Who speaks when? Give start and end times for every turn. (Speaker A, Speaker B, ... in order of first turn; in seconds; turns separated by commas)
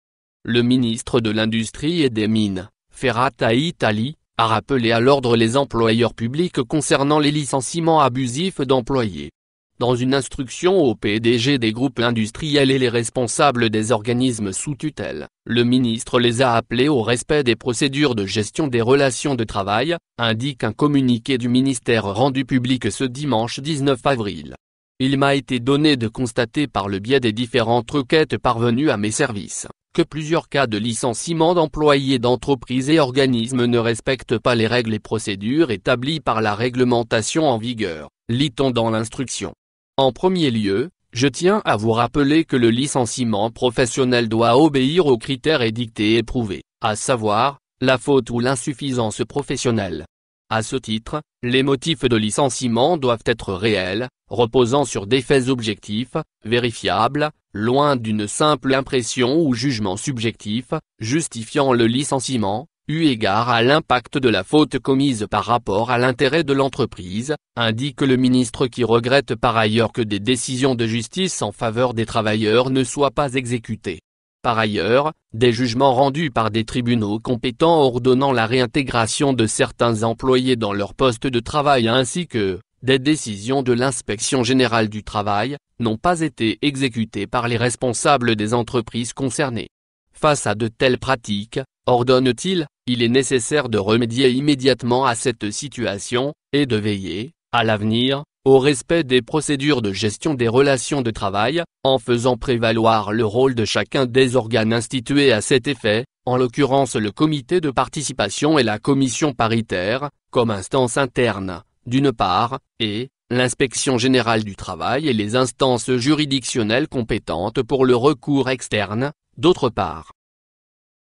Speaker A: 0.4-120.1